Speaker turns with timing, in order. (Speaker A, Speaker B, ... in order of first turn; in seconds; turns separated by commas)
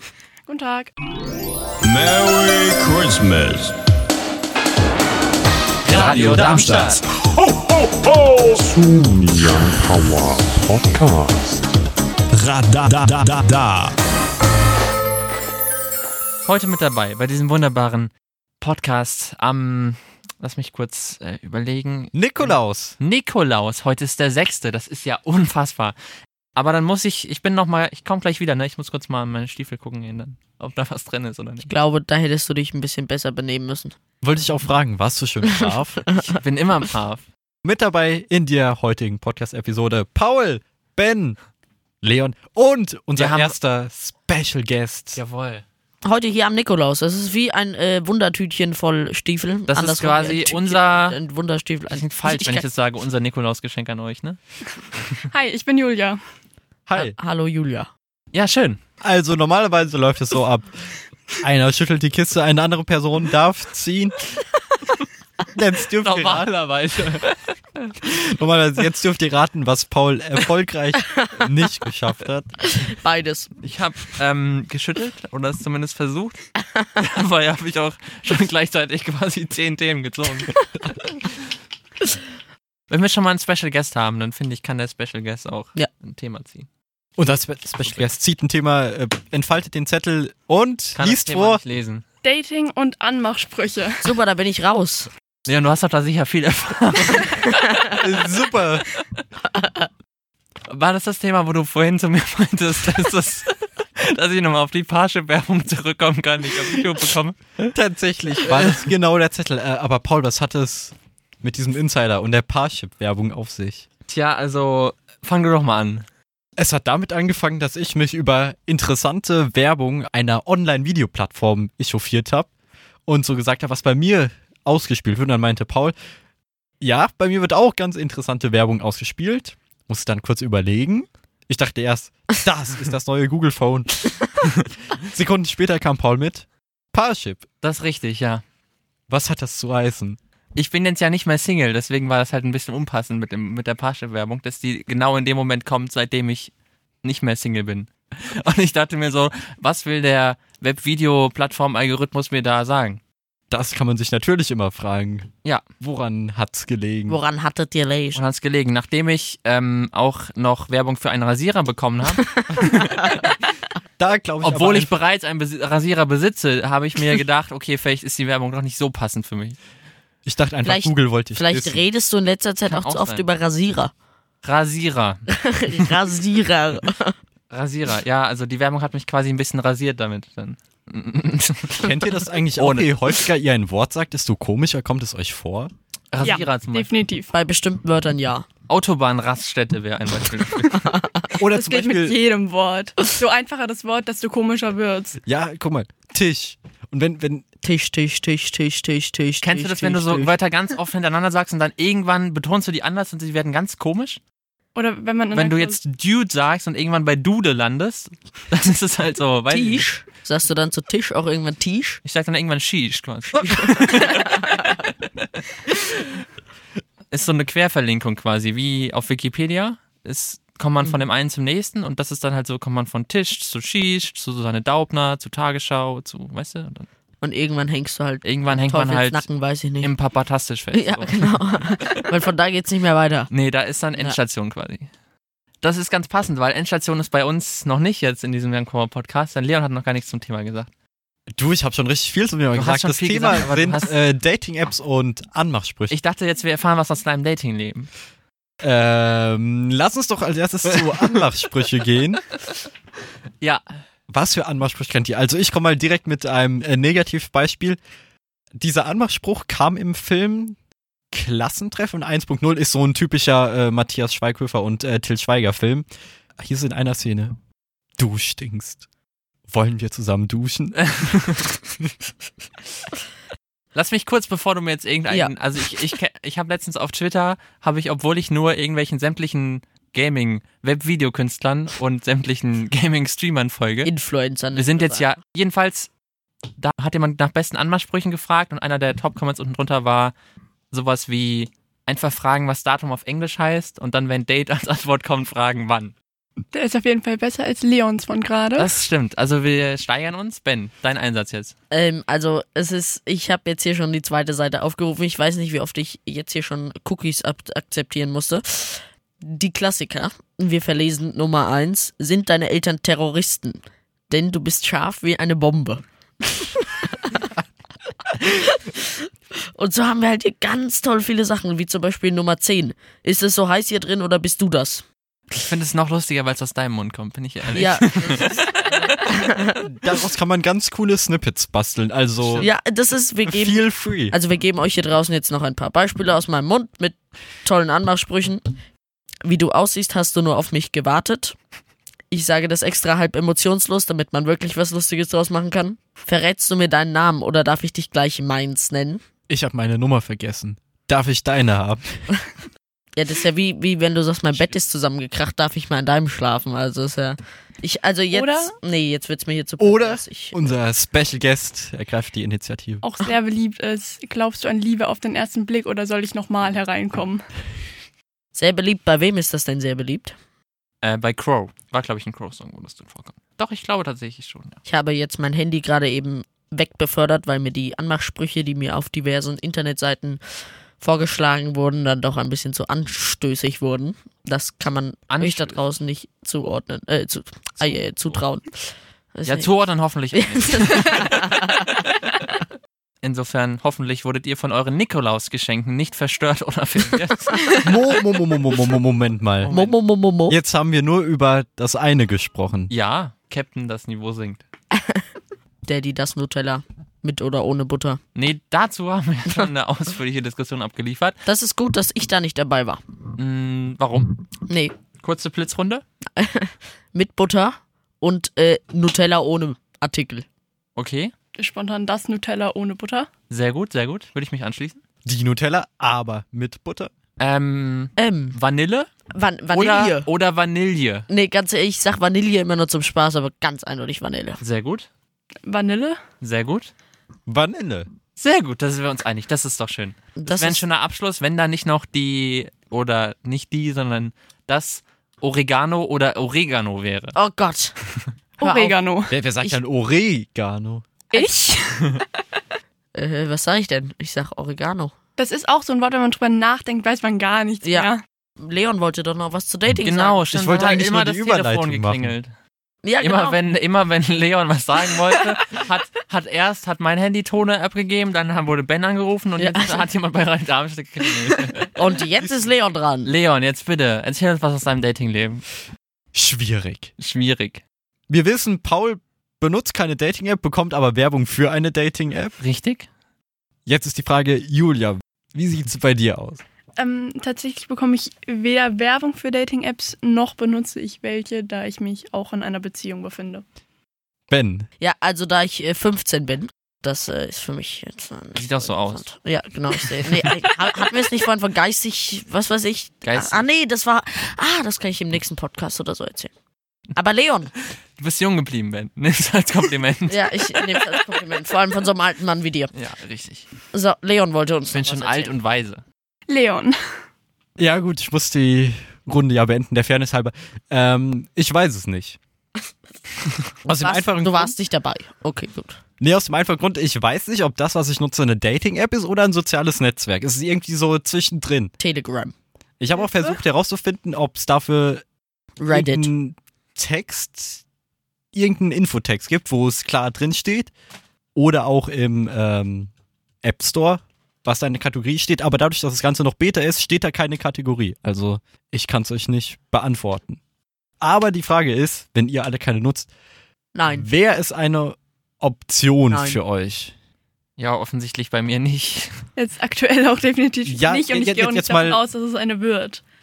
Speaker A: 0.5-0.9, Speaker B: 1.8-3.7, Speaker C: 5.8-7.0, Speaker B: 5.9-7.0, Speaker B: 8.0-11.5, Speaker B: 12.3-13.9, Speaker C: 16.5-26.0, Speaker D: 22.1-23.0, Speaker C: 26.6-31.7, Speaker E: 31.7-34.0, Speaker D: 34.2-36.0, Speaker E: 35.5-36.4, Speaker C: 36.2-37.2, Speaker D: 37.6-41.4, Speaker D: 42.0-45.2, Speaker C: 43.2-43.6, Speaker C: 45.1-45.6, Speaker E: 46.0-52.7, Speaker C: 49.7-51.2, Speaker C: 51.9-54.4, Speaker A: 55.3-56.2, Speaker D: 56.9-57.2, Speaker E: 57.0-57.9, Speaker C: 58.3-58.8, Speaker D: 59.0-64.3, Speaker D: 65.5-67.2, Speaker C: 66.0-67.6, Speaker D: 68.0-72.6, Speaker E: 71.1-71.5, Speaker E: 72.7-73.5, Speaker C: 73.6-81.0, Speaker C: 82.9-86.7, Speaker D: 87.2-91.6, Speaker C: 91.0-92.0, Speaker A: 92.2-94.0, Speaker E: 94.0-95.1, Speaker C: 95.5-98.0, Speaker D: 98.0-98.9, Speaker E: 99.5-99.9, Speaker C: 100.7-107.7, Speaker D: 107.7-113.9, Speaker C: 114.1-116.0, Speaker D: 116.6-122.5, Speaker D: 123.1-126.0, Speaker D: 126.8-134.3, Speaker D: 134.9-137.4, Speaker C: 137.6-138.4, Speaker D: 139.1-140.2, Speaker C: 140.6-153.0, Speaker D: 153.5-157.2, Speaker E: 157.1-158.2, Speaker C: 158.2-163.4, Speaker E: 162.3-163.4, Speaker D: 164.0-164.9, Speaker C: 164.4-169.6, Speaker D: 170.2-171.8, Speaker E: 170.6-173.9, Speaker C: 172.7-173.3, Speaker C: 174.4-175.2, Speaker E: 175.3-177.2, Speaker C: 177.5-183.1, Speaker D: 181.8-185.7, Speaker C: 186.1-186.9, Speaker A: 186.2-187.3, Speaker E: 187.3-188.5, Speaker C: 188.7-191.0, Speaker E: 190.7-191.3, Speaker D: 191.4-192.2, Speaker A: 191.4-195.2, Speaker D: 195.2-197.4, Speaker E: 197.6-200.3, Speaker C: 199.4-204.2, Speaker A: 204.8-205.8, Speaker C: 205.3-209.9, Speaker E: 209.5-212.0, Speaker C: 212.1-215.4, Speaker E: 213.4-214.7, Speaker C: 217.1-226.9, Speaker E: 227.2-229.9, Speaker C: 228.2-229.3, Speaker C: 229.8-232.1, Speaker E: 230.7-233.3, Speaker C: 233.3-234.9, Speaker C: 235.6-240.7, Speaker D: 241.4-245.9, Speaker C: 242.5-244.0, Speaker C: 245.9-247.9, Speaker D: 248.6-252.2, Speaker C: 250.7-251.2, Speaker D: 254.1-257.8, Speaker D: 258.6-260.6, Speaker D: 261.1-265.9, Speaker D: 266.4-267.4, Speaker D: 268.0-268.8, Speaker D: 269.5-271.4, Speaker C: 270.9-271.5, Speaker C: 273.7-283.9, Speaker E: 275.1-275.3, Speaker E: 283.9-285.1, Speaker C: 284.5-285.9, Speaker C: 286.6-290.1, Speaker C: 290.7-295.9, Speaker A: 296.5-298.7, Speaker C: 298.6-301.6, Speaker E: 301.7-317.3, Speaker E: 318.1-324.9, Speaker C: 325.4-329.1, Speaker E: 327.5-329.6, Speaker D: 329.6-332.5, Speaker C: 332.2-332.5, Speaker E: 332.4-338.5, Speaker D: 333.3-334.1, Speaker E: 339.2-341.4, Speaker E: 342.1-349.0, Speaker D: 349.3-352.1, Speaker E: 353.0-360.4, Speaker A: 358.1-358.5, Speaker D: 359.6-362.8, Speaker A: 362.8-367.2, Speaker E: 368.4-370.2, Speaker C: 370.8-374.6, Speaker E: 374.7-380.2, Speaker E: 380.8-389.5, Speaker C: 385.1-385.6, Speaker C: 387.6-388.2, Speaker C: 389.3-392.2, Speaker E: 390.1-391.7, Speaker C: 393.0-397.5, Speaker D: 397.6-399.5, Speaker C: 399.4-399.8, Speaker E: 399.5-400.4, Speaker D: 400.3-402.7, Speaker C: 402.7-404.4, Speaker E: 405.6-408.0, Speaker C: 408.1-411.2, Speaker E: 411.3-412.8, Speaker C: 413.2-414.3, Speaker E: 414.5-414.7, Speaker C: 415.0-415.8, Speaker E: 416.2-420.3, Speaker C: 420.8-421.1, Speaker A: 421.4-423.1, Speaker C: 423.3-424.8, Speaker D: 425.1-426.9, Speaker C: 427.2-428.9, Speaker E: 428.0-428.4, Speaker E: 429.1-430.1, Speaker C: 429.5-431.1, Speaker E: 431.1-434.4, Speaker C: 434.4-434.9, Speaker A: 435.4-436.0, Speaker C: 436.2-436.7, Speaker D: 437.3-437.9, Speaker C: 438.2-447.1, Speaker E: 440.2-440.6, Speaker E: 447.2-447.8, Speaker A: 448.4-449.1, Speaker E: 448.4-448.8, Speaker D: 449.1-450.9, Speaker A: 451.1-452.0, Speaker E: 452.9-454.9, Speaker A: 455.2-458.0, Speaker E: 457.6-460.2, Speaker C: 459.8-462.3, Speaker D: 460.3-462.1, Speaker E: 462.8-463.4, Speaker C: 463.0-471.7, Speaker E: 469.4-469.9, Speaker E: 471.6-473.1, Speaker D: 472.2-472.4, Speaker C: 473.1-475.4, Speaker D: 476.1-476.9, Speaker C: 477.0-477.6, Speaker D: 478.1-482.4, Speaker C: 482.4-482.9, Speaker D: 483.7-486.4, Speaker A: 486.8-493.4, Speaker D: 494.3-494.7, Speaker E: 494.8-506.3, Speaker C: 498.4-499.1, Speaker C: 503.0-503.5, Speaker E: 506.9-507.5, Speaker C: 508.0-510.8, Speaker E: 510.1-512.7, Speaker C: 512.7-513.5, Speaker E: 513.7-515.3, Speaker C: 514.7-515.8, Speaker A: 516.3-516.8, Speaker D: 517.6-522.2, Speaker E: 523.6-525.8, Speaker D: 523.7-524.5, Speaker D: 526.0-531.7, Speaker E: 531.8-532.4, Speaker D: 532.8-535.0, Speaker E: 535.6-536.1, Speaker D: 535.7-537.6, Speaker D: 538.3-540.7, Speaker D: 541.4-542.9, Speaker D: 543.4-550.4, Speaker D: 551.0-553.1, Speaker E: 553.7-554.1, Speaker D: 553.9-556.9, Speaker E: 556.1-556.4, Speaker C: 557.6-559.2, Speaker A: 559.4-563.0, Speaker D: 560.7-562.0